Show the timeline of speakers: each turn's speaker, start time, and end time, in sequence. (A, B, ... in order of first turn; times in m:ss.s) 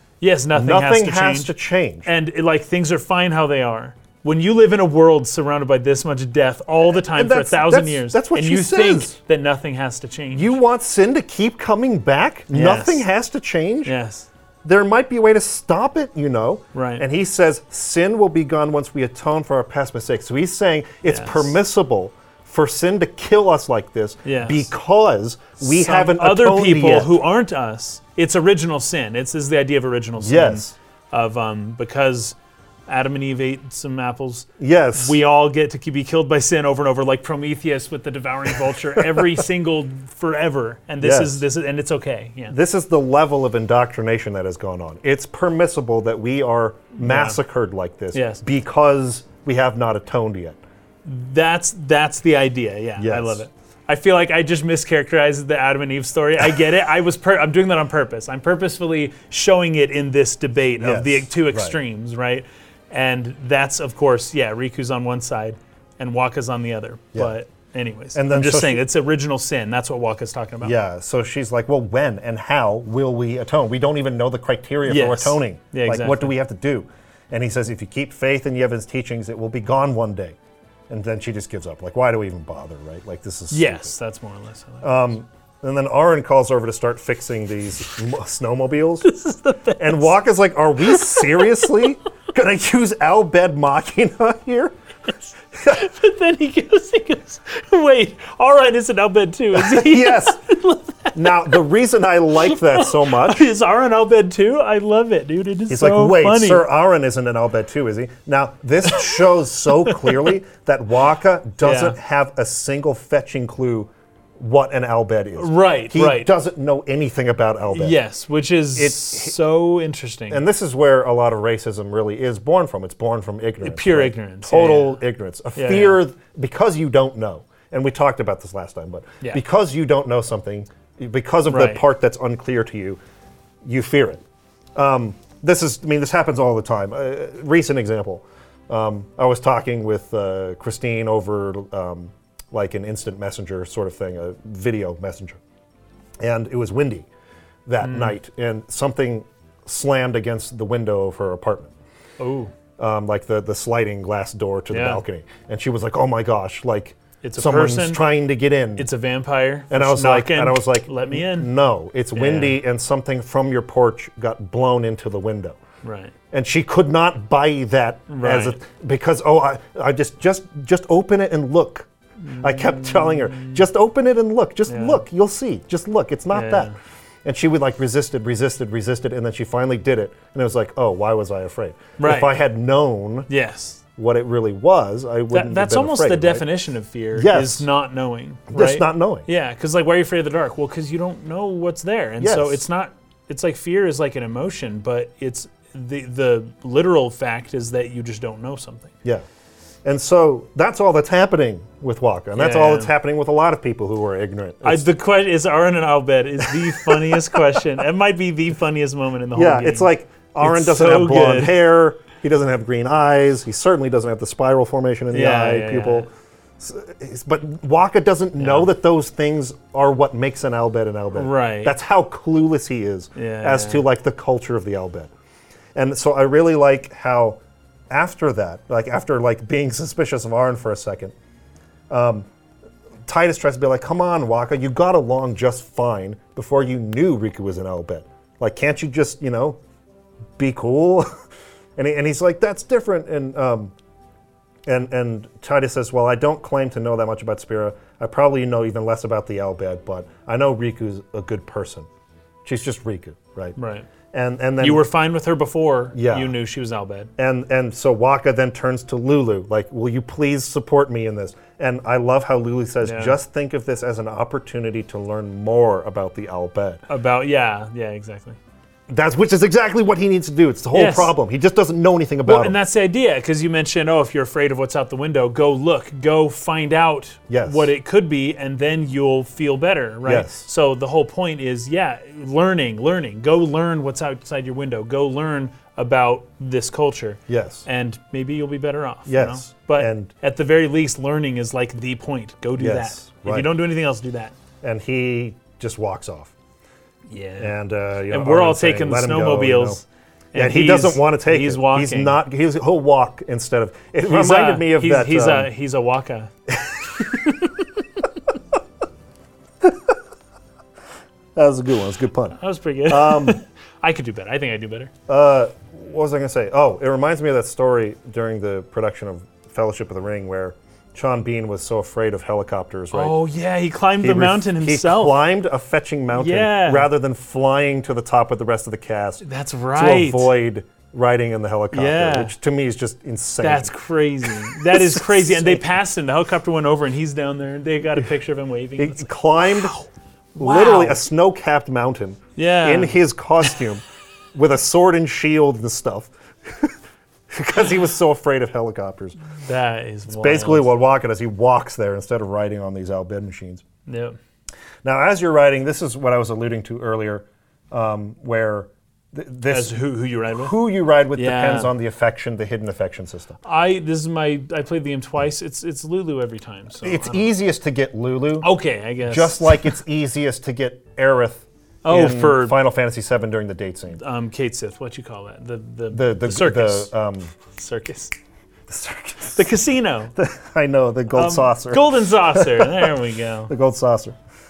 0:00.2-0:01.5 A
0:00.5-0:02.1 B
0:02.0-0:10.6 A
0:06.9-0:09.2 B
0:10.3-0:13.9 B
0:12.5-0:13.1 A
0:13.8-0:14.3 A
0:14.6-0:27.2 B
0:16.7-0:17.0 A
0:21.1-0:21.6 A
0:24.2-0:24.7 A
0:25.6-0:42.6 A
0:30.2-0:30.8 B
0:34.6-0:35.2 B
0:41.0-0:41.4 B
0:42.5-0:50.6 B
0:47.0-0:47.4 A
0:48.1-0:48.4 A
0:51.0-1:10.8 A
0:53.0-0:53.4 B
1:00.8-1:01.8 B
1:08.1-1:08.8 B
1:10.6-1:20.4 B
1:14.8-1:16.3 A
1:20.9-1:24.0 B
1:23.5-1:25.1 A
1:24.8-1:29.1 B
1:29.0-1:30.2 A
1:29.8-1:34.8 B
1:30.8-1:31.7 A
1:35.6-1:41.6 A
1:39.5-1:40.4 B
1:41.2-1:43.5 B
1:42.4-1:46.6 A
1:45.7-1:58.0 B
1:49.9-1:50.3 A
1:51.6-1:52.0 A
1:55.4-1:56.3 A
1:57.7-2:00.4 A
1:58.8-1:59.4 B
2:00.3-2:13.0 B
2:03.6-2:05.0 A
2:05.6-2:06.0 A
2:11.5-2:11.8 A
2:13.6-2:14.2 B
2:14.8-2:25.4 B
2:26.2-2:27.1 B
2:27.7-2:31.8 B
2:27.8-2:28.2 A
2:32.2-2:32.5 A
2:32.8-2:38.9 B
2:34.7-2:35.0 A
2:37.2-2:38.0 A
2:38.8-2:41.5 A
2:39.7-2:45.6 B
2:42.1-2:42.6 A
2:45.8-2:46.1 A
2:46.3-2:56.7 B
2:48.1-2:48.6 A
2:52.2-2:53.6 A
2:54.7-2:55.0 A
2:56.3-2:56.8 A
2:57.2-3:03.3 B
3:02.0-3:02.4 A
3:03.3-3:03.8 A
3:04.0-3:06.5 B
3:05.3-3:19.0 A
3:07.1-3:07.7 B
3:08.5-3:09.3 B
3:12.2-3:12.6 B
3:19.8-3:24.9 B
3:22.4-3:22.9 A
3:24.6-3:29.9 A
3:26.4-3:27.3 B
3:29.4-3:45.1 B
3:30.4-3:31.6 A
3:35.1-3:36.1 A
3:38.4-3:38.7 A
3:41.1-3:41.8 A
3:43.2-3:43.9 A
3:45.8-3:47.4 B
3:47.9-3:51.1 B
3:51.9-3:52.3 B
3:53.1-3:59.6 B
4:00.4-4:01.1 B
4:01.8-4:03.7 B
4:04.7-4:11.9 B
4:12.4-4:13.6 B
4:13.6-4:13.9 A
4:14.1-4:14.8 B
4:14.6-4:17.1 A
4:15.9-4:16.4 B
4:17.2-4:26.8 B
4:22.8-4:23.2 A
4:26.9-4:28.4 A
4:28.9-4:32.6 B
4:30.7-4:31.1 A
4:32.2-4:54.4 A
4:37.3-4:37.7 B
4:40.0-4:40.5 B
4:47.3-4:47.7 B
4:49.1-4:50.1 B
4:52.6-4:53.5 B
4:54.6-4:56.4 B
4:57.1-4:57.6 A
4:57.4-4:59.8 B
4:58.1-5:02.2 A
5:00.4-5:05.5 B
5:04.1-5:06.3 A
5:06.5-5:07.2 B
5:07.0-5:07.6 A
5:11.4-5:13.4 B
5:12.4-5:14.9 A
5:15.1-5:23.2 B
5:22.9-5:25.2 A
5:24.0-5:35.7 B
5:26.1-5:26.9 A
5:29.2-5:30.4 A
5:31.7-5:32.4 A
5:33.4-5:41.0 A
5:38.8-5:39.8 B
5:40.4-5:43.8 B
5:42.4-5:43.0 A
5:44.3-5:46.8 B
5:47.3-5:49.2 B
5:49.4-5:50.7 A
5:50.1-5:53.6 B
5:53.9-5:54.2 A
5:54.8-5:59.8 B
5:59.5-6:00.6 A
6:00.3-6:03.4 B
6:01.2-6:01.7 A
6:03.4-6:07.3 A
6:06.8-6:14.0 B
6:08.4-6:09.8 A
6:11.8-6:12.6 A
6:14.0-6:18.2 A
6:15.9-6:17.3 B
6:18.7-6:19.5 B
6:19.4-6:20.1 A
6:20.2-6:22.9 B
6:21.1-6:23.5 A
6:23.5-6:24.2 B